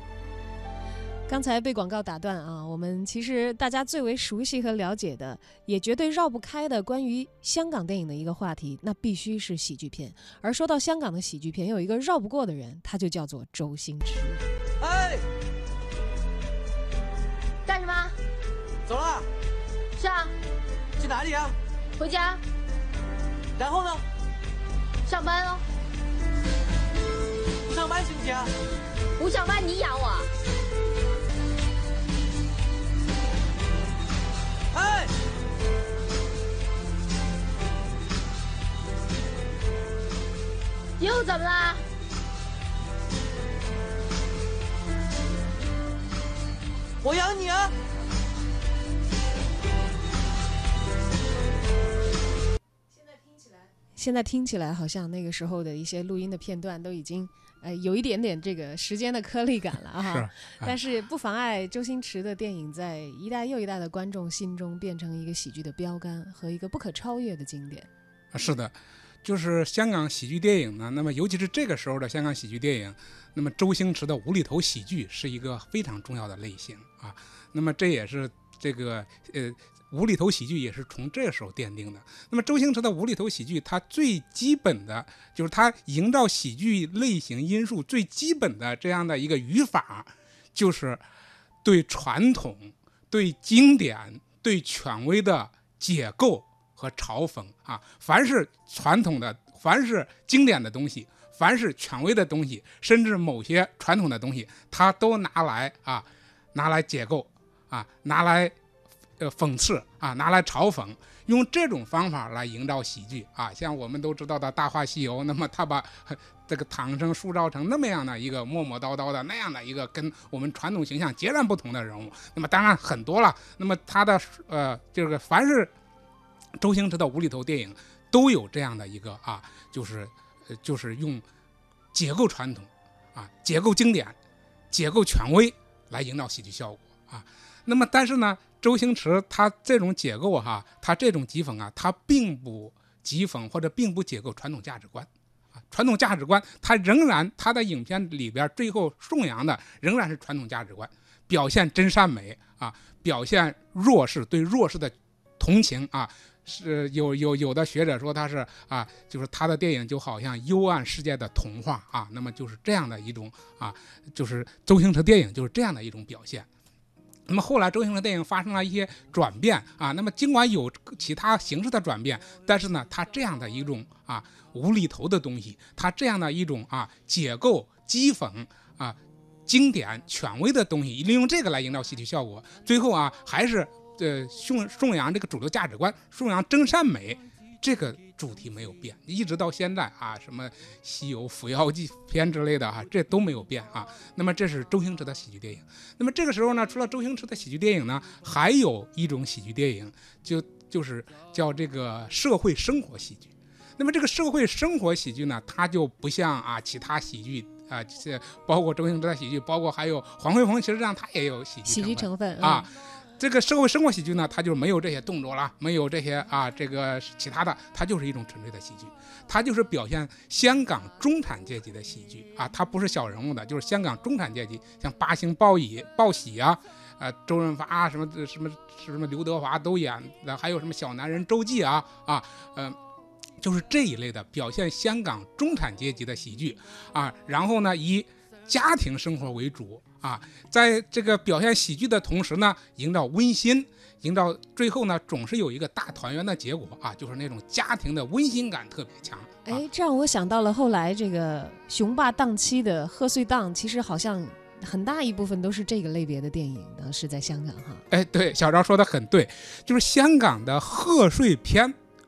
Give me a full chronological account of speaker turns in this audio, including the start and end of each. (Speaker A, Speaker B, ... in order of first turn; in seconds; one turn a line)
Speaker A: 1.3-14.4
Speaker B: 14.8-15.2
Speaker C: 17.7-18.1
Speaker B: 18.9-19.3
Speaker C: 20.0-20.3
Speaker B: 21.0-21.5
Speaker C: 22.0-22.4
Speaker B: 23.6-24.0
Speaker C: 25.1-25.6
Speaker B: 27.7-28.5
Speaker C: 29.2-30.3
Speaker B: 34.7-35.1
Speaker C: 41.0-41.8
Speaker B: 47.0-47.7
Speaker A: 52.9-67.9
Speaker D: 60.0-60.8
Speaker D: 68.3-91.0
Speaker D: 91.6-108.6
Speaker D: 109.2-125.7
Speaker D: 126.6-131.2
Speaker D: 131.9-134.2
Speaker D: 134.7-166.5
Speaker D: 167.3-232.8
Speaker A: 211.7-212.7
Speaker D: 233.4-249.6
Speaker A: 249.4-257.8
Speaker D: 257.9-261.8